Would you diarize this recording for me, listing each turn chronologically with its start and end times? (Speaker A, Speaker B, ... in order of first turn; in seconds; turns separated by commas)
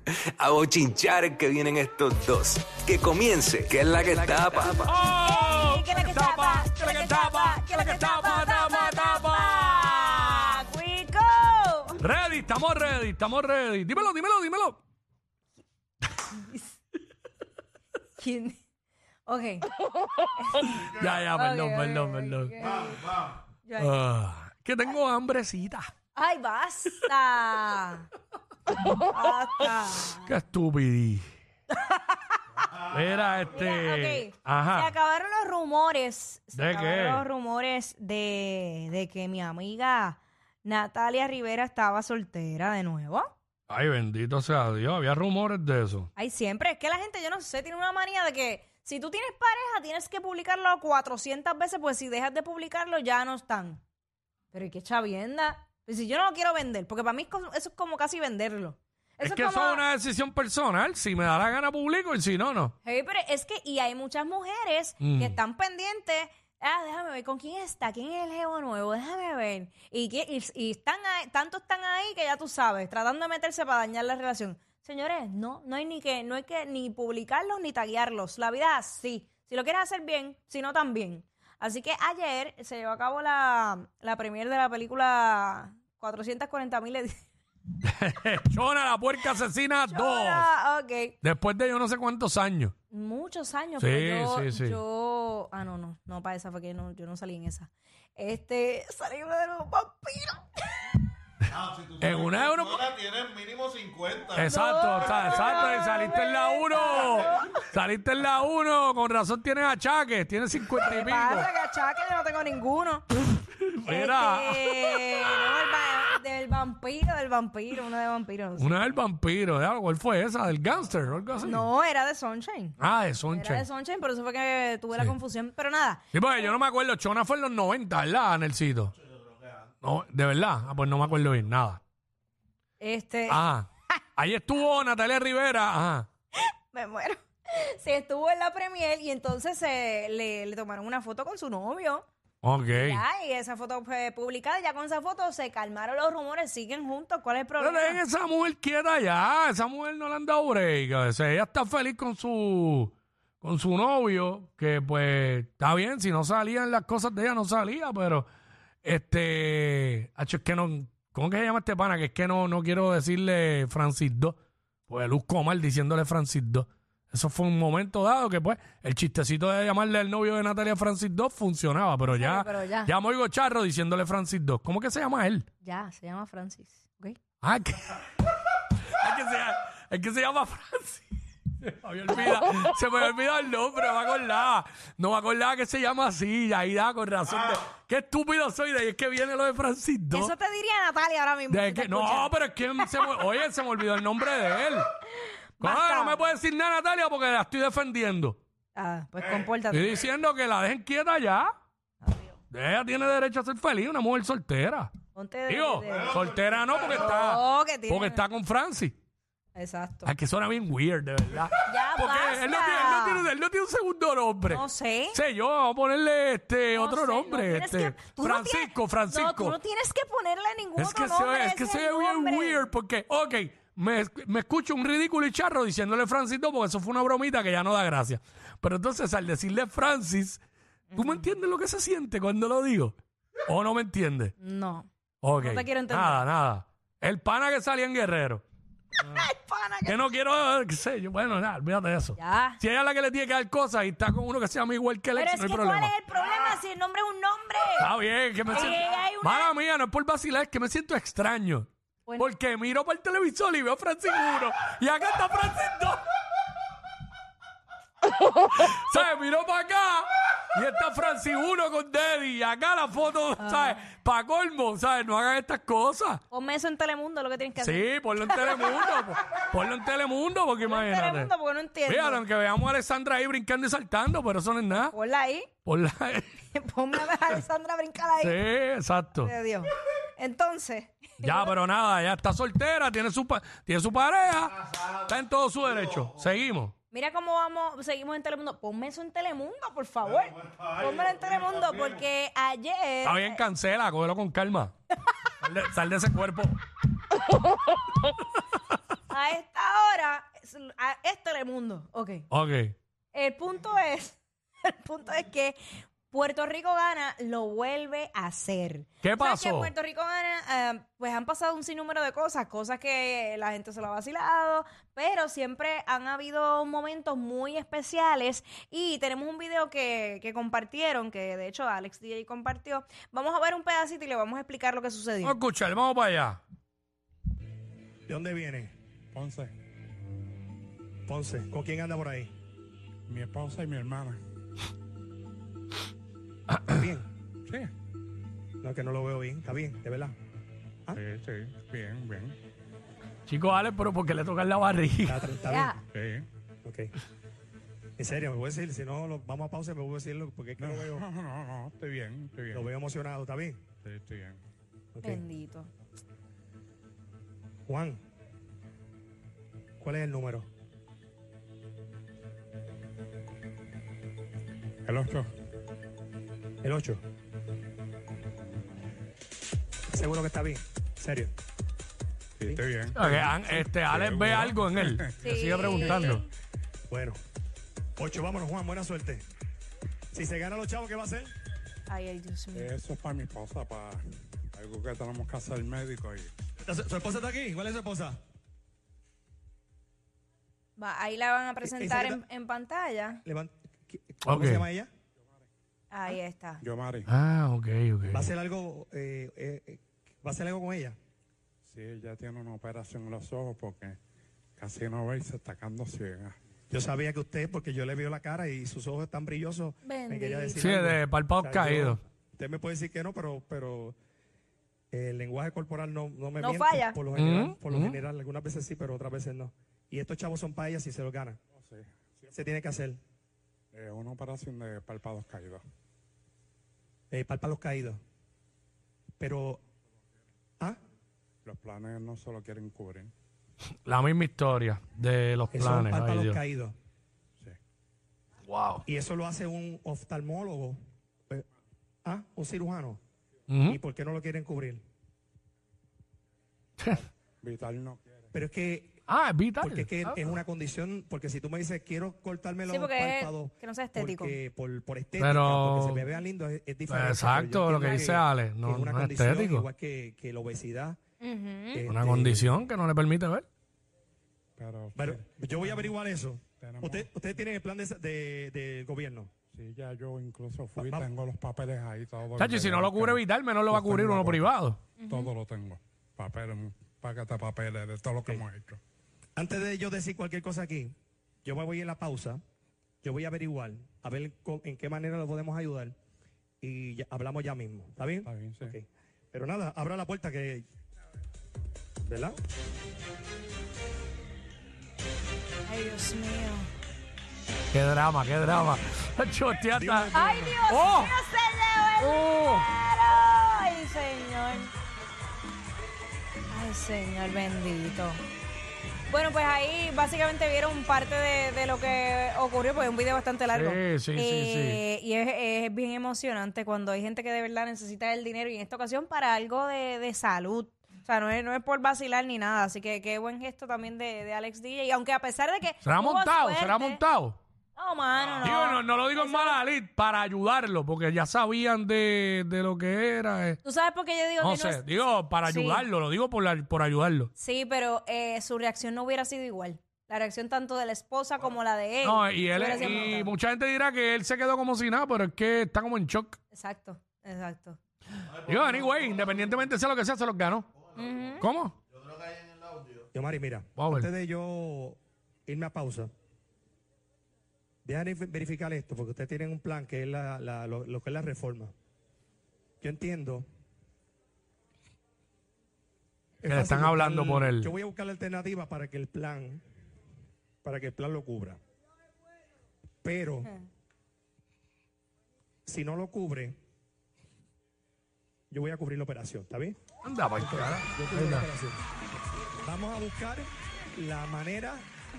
Speaker A: 0.4-4.9, Speaker B: 4.0-10.6, Speaker C: 5.2-12.0, Speaker B: 12.0-14.8, Speaker C: 16.3-16.7, Speaker C: 18.2-18.6, Speaker C: 19.3-19.7, Speaker C: 20.4-23.9, Speaker B: 20.6-23.1, Speaker B: 23.8-25.9, Speaker C: 26.1-28.1, Speaker C: 28.8-30.3, Speaker B: 30.2-31.3, Speaker C: 31.7-32.4, Speaker B: 32.7-34.9, Speaker C: 33.5-43.3, Speaker B: 36.5-37.2, Speaker B: 43.7-46.1, Speaker C: 46.2-53.8, Speaker C: 54.5-59.8, Speaker B: 59.2-62.7, Speaker C: 62.8-87.2, Speaker B: 65.0-65.4, Speaker B: 87.8-90.5, Speaker C: 89.9-91.2, Speaker B: 91.2-92.7, Speaker C: 92.9-100.5, Speaker B: 93.8-94.8, Speaker D: 101.6-102.0, Speaker B: 102.0-102.9, Speaker D: 102.9-104.3, Speaker B: 104.3-111.5, Speaker C: 104.4-107.6, Speaker C: 110.8-113.1, Speaker B: 113.7-115.3, Speaker C: 113.9-118.8, Speaker B: 118.6-121.7, Speaker C: 121.4-122.8, Speaker B: 122.8-123.7, Speaker C: 123.3-126.5, Speaker B: 126.1-128.9, Speaker B: 129.8-131.8, Speaker C: 132.8-133.4, Speaker B: 133.3-136.1, Speaker C: 136.4-142.1, Speaker B: 142.4-143.0, Speaker C: 142.8-148.0, Speaker B: 147.6-158.3, Speaker B: 158.8-164.4, Speaker B: 164.9-175.5, Speaker C: 172.1-172.9, Speaker C: 175.6-177.2, Speaker B: 177.4-178.0, Speaker B: 178.9-181.1, Speaker B: 181.6-190.3, Speaker C: 190.1-192.3, Speaker B: 191.5-194.9, Speaker C: 195.2-196.3, Speaker B: 195.6-198.4, Speaker C: 198.8-200.0, Speaker B: 199.7-201.5, Speaker C: 202.0-202.4, Speaker B: 202.5-204.9, Speaker C: 205.2-206.3, Speaker B: 205.5-208.9, Speaker C: 207.0-208.2, Speaker C: 209.5-210.1, Speaker B: 210.1-219.6, Speaker C: 211.6-213.3, Speaker C: 214.5-215.2, Speaker C: 216.7-222.7, Speaker B: 220.8-230.4, Speaker C: 230.9-231.3, Speaker B: 230.9-234.3, Speaker C: 234.4-234.9, Speaker B: 235.2-238.4, Speaker C: 235.4-236.2, Speaker C: 239.0-240.0, Speaker B: 239.9-245.9, Speaker C: 242.2-242.6, Speaker C: 245.2-247.9, Speaker B: 247.8-256.0, Speaker C: 248.5-249.5, Speaker B: 258.2-266.2, Speaker C: 263.4-263.8, Speaker C: 266.3-269.0, Speaker B: 267.6-271.3, Speaker C: 270.6-272.2, Speaker B: 271.9-274.9, Speaker C: 274.8-275.5, Speaker B: 275.6-276.4, Speaker C: 276.5-278.4, Speaker B: 278.2-279.3, Speaker C: 279.2-281.6, Speaker B: 281.2-286.7, Speaker C: 286.9-293.4, Speaker B: 293.0-294.7, Speaker B: 295.4-296.6, Speaker C: 299.1-302.3, Speaker B: 302.3-302.8, Speaker C: 303.1-325.4, Speaker B: 309.0-309.7, Speaker B: 325.2-326.4, Speaker E: 328.1-328.7, Speaker F: 329.1-329.5, Speaker E: 331.1-332.3, Speaker F: 333.1-334.2, Speaker E: 336.7-337.1, Speaker F: 337.5-337.7, Speaker E: 338.6-340.1, Speaker F: 340.9-342.4, Speaker B: 343.3-345.3, Speaker E: 345.1-345.7, Speaker C: 345.4-345.8, Speaker F: 345.9-346.3, Speaker E: 346.6-346.9, Speaker E: 348.0-351.1, Speaker F: 350.6-352.7, Speaker E: 352.5-353.6, Speaker F: 353.8-354.4, Speaker E: 354.9-355.2, Speaker C: 355.0-355.7, Speaker E: 357.7-358.0, Speaker E: 359.8-360.5, Speaker F: 364.9-365.3, Speaker E: 366.6-367.0, Speaker E: 369.9-371.3, Speaker F: 372.4-375.1, Speaker B: 372.9-376.2, Speaker C: 375.2-376.3, Speaker E: 376.9-377.2, Speaker E: 378.0-379.2, Speaker E: 380.1-381.3, Speaker C: 381.9-382.7, Speaker F: 382.5-384.0, Speaker F: 384.5-386.3, Speaker E: 386.6-388.2, Speaker C: 390.8-393.2, Speaker E: 391.6-392.2, Speaker E: 393.2-394.9, Speaker B: 394.3-394.7, Speaker C: 395.9-396.6, Speaker F: 396.6-397.1, Speaker B: 397.1-398.3, Speaker E: 398.1-401.0, Speaker F: 401.6-404.0, Speaker F: 404.6-406.4, Speaker E: 406.7-414.0, Speaker C: 409.9-410.8, Speaker B: 410.6-412.0, Speaker E: 414.9-421.4, Speaker C: 416.4-417.0, Speaker B: 417.1-418.0, Speaker F: 421.6-422.3, Speaker E: 422.3-423.0, Speaker F: 423.7-425.6, Speaker E: 427.1-428.0, Speaker E: 429.2-429.6, Speaker F: 431.4-433.1, Speaker B: 433.9-436.4, Speaker E: 435.5-436.8, Speaker B: 438.5-438.8, Speaker E: 438.9-440.8, Speaker E: 442.1-443.0, Speaker B: 443.5-443.8, Speaker E: 443.7-444.8, Speaker B: 446.8-447.1, Speaker F: 447.4-448.3, Speaker E: 448.3-449.0, Speaker B: 449.1-450.2, Speaker E: 449.6-461.0, Speaker C: 452.7-454.4, Speaker B: 455.2-456.1, Speaker B: 456.9-459.7, Speaker C: 461.2-461.9, Speaker E: 461.7-462.6, Speaker B: 461.9-463.5, Speaker F: 464.6-466.0, Speaker E: 464.9-469.3, Speaker F: 466.6-467.1, Speaker F: 469.5-474.4, Speaker E: 470.8-471.1, Speaker B: 472.4-474.8, Speaker E: 473.9-474.3, Speaker C: 475.0-475.3, Speaker F: 475.1-478.8, Speaker E: 479.4-480.9, Speaker E: 481.4-482.4, Speaker E: 483.0-485.9, Speaker E: 486.6-490.7, Speaker F: 488.2-488.8, Speaker E: 492.1-492.4, Speaker C: 495.7-496.7, Speaker B: 497.7-501.1, Speaker E: 499.7-500.6, Speaker C: 500.1-504.7, Speaker B: 502.0-502.7, Speaker C: 506.5-508.2, Speaker C: 509.1-527.0, Speaker B: 513.5-514.8, Speaker B: 525.8-527.4, Speaker C: 527.8-529.6, Speaker B: 528.4-533.6, Speaker C: 533.6-534.8, Speaker B: 534.4-537.3, Speaker C: 535.5-535.8, Speaker C: 537.4-543.3, Speaker B: 542.0-546.4, Speaker C: 546.5-547.8, Speaker B: 548.3-550.7, Speaker C: 551.0-551.5, Speaker B: 551.4-551.7, Speaker D: 552.0-553.0, Speaker E: 553.1-556.1, Speaker B: 553.8-554.1, Speaker E: 557.9-561.7, Speaker E: 562.8-563.5, Speaker E: 566.4-569.6, Speaker B: 566.5-567.7, Speaker E: 570.6-571.6, Speaker E: 573.0-573.5, Speaker E: 575.7-576.6, Speaker E: 578.5-579.8, Speaker B: 580.0-581.5, Speaker E: 580.4-581.8, Speaker E: 582.6-584.8